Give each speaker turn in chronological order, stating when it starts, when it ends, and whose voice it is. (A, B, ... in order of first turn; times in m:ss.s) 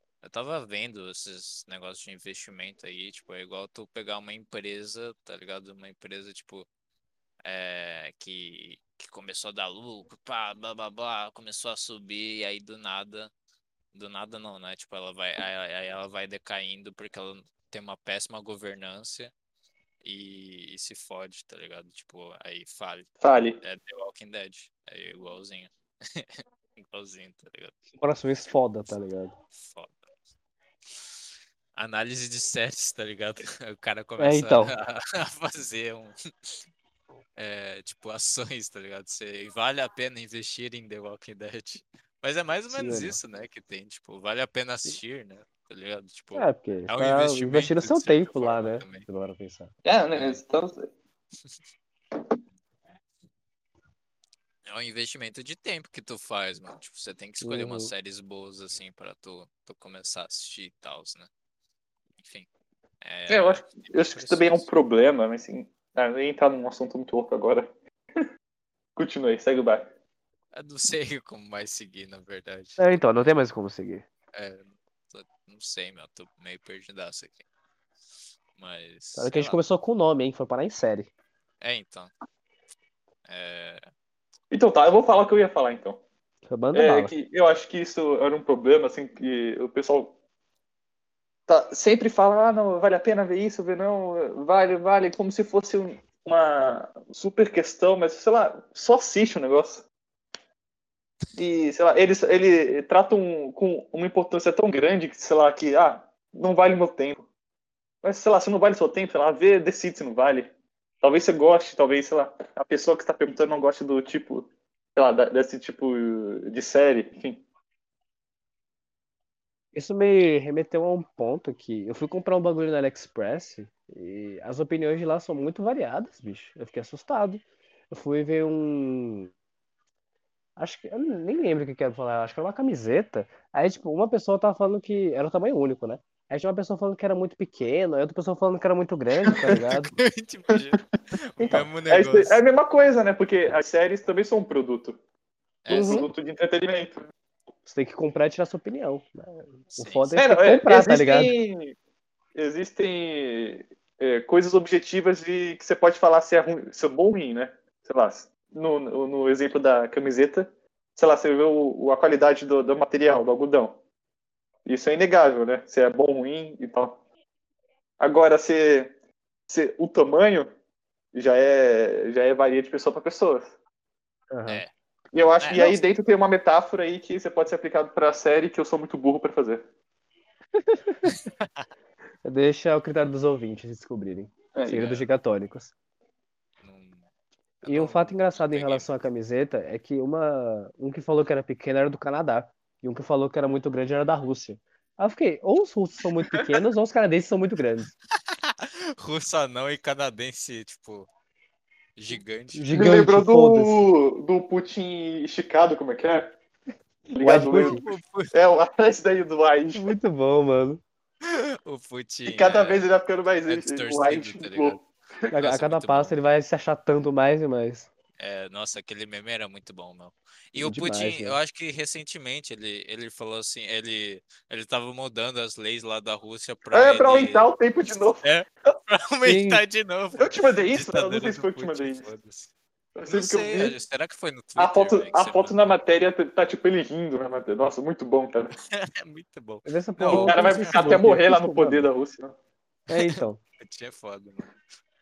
0:00.2-0:06.7 A
0:07.4-0:13.3 A
0:13.9-0:19.3 A
0:20.0-0:23.1 A
0:23.2-0:23.6 B
0:23.6-0:27.8 A
0:28.0-0:29.4 C
0:29.6-0:30.0 A
0:31.8-0:36.6 A
0:34.2-0:34.7 C
0:37.4-0:49.1 A
0:42.7-0:43.2 C
0:46.4-0:49.7 C
0:49.8-0:50.9 B
0:54.7-1:01.3 A
0:57.4-0:57.9 C
1:02.2-1:02.5 A
1:03.0-1:04.7 A
1:03.3-1:07.7 B
1:09.0-1:09.9 B
1:10.5-1:13.4 A
1:12.8-1:14.0 C
1:14.3-1:17.4 A
1:18.6-1:19.6 A
1:19.2-1:21.1 C
1:21.6-1:22.1 A
1:23.3-1:23.8 A
1:24.5-1:26.0 B
1:26.5-1:27.1 C
1:26.7-1:30.1 B
1:31.5-1:39.8 B
1:41.4-1:47.3 B
1:48.0-1:50.5 B
1:51.0-1:57.4 B
1:59.7-2:09.3 C
2:10.6-2:19.9 C
2:19.3-2:19.5 B
2:19.5-2:22.4 A
2:21.4-2:25.0 B
2:25.6-2:26.0 A
2:25.7-2:26.1 C
2:25.8-2:27.1 B
2:27.7-2:31.3 C
2:29.7-2:30.1 A
2:30.2-2:31.8 B
2:32.4-2:43.8 B
2:44.6-2:47.0 B
2:48.0-2:48.9 B
2:49.5-2:50.5 B
2:51.1-2:53.5 B
2:54.3-2:54.6 C
2:55.1-2:59.6 B
2:55.4-2:55.8 A
3:00.6-3:01.1 C
3:01.1-3:01.5 A
3:02.2-3:05.7 C
3:04.6-3:04.9 B
3:04.7-3:05.0 A
3:06.6-3:07.0 A
3:07.6-3:09.0 A
3:07.7-3:17.9 C
3:18.3-3:21.1 A
3:22.0-3:22.8 A
3:22.5-3:23.8 C
3:22.7-3:26.3 B
3:27.2-3:29.9 B
3:27.2-3:27.8 C
3:27.6-3:28.3 A
3:29.7-3:30.8 C
3:31.2-3:32.8 A
3:32.3-3:34.8 B
3:33.5-3:34.8 A
3:35.3-3:37.9 C
3:35.3-3:36.2 A
3:38.2-3:47.5 A
3:40.6-3:41.4 C
3:46.7-3:48.2 B
3:48.2-3:52.5 A
3:49.2-3:49.6 C
3:50.2-3:52.1 B
3:53.0-3:53.8 B
3:53.1-3:55.8 A
3:54.6-3:58.5 B
3:58.7-4:01.0 A
3:59.6-4:01.9 C
4:00.0-4:02.4 B
4:02.9-4:03.4 C
4:02.9-4:04.5 A